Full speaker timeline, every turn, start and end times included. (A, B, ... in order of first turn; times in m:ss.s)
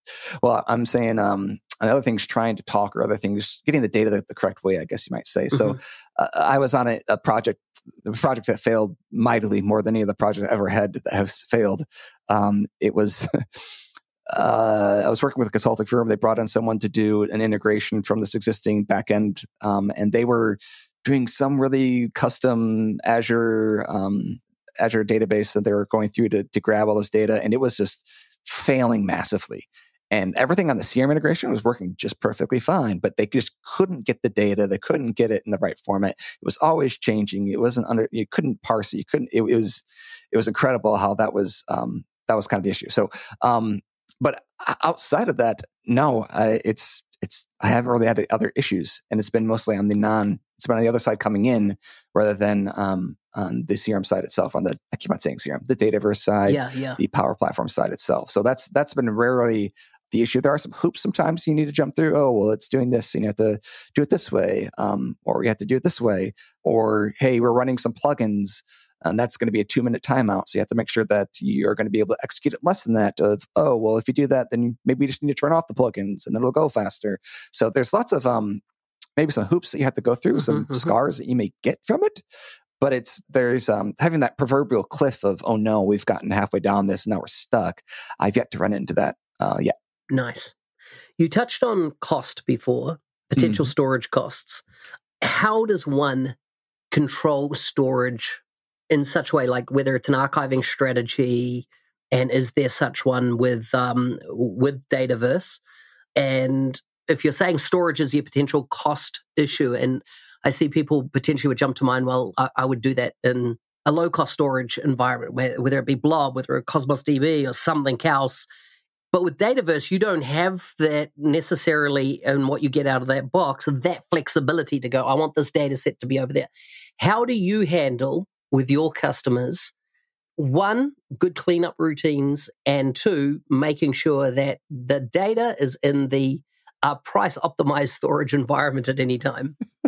0:00.4-0:13.7 A
0:14.3-1:18.6 A
0:56.5-0:57.0 B
1:19.2-1:22.2 A
1:20.4-1:20.9 B
1:22.8-1:29.7 A
1:30.1-1:30.5 B
1:31.2-1:34.6 B
1:33.4-1:33.7 A
1:35.2-1:36.4 B
1:36.9-1:45.6 B
1:46.2-1:58.5 B
1:59.1-2:09.7 B
2:10.4-2:19.6 B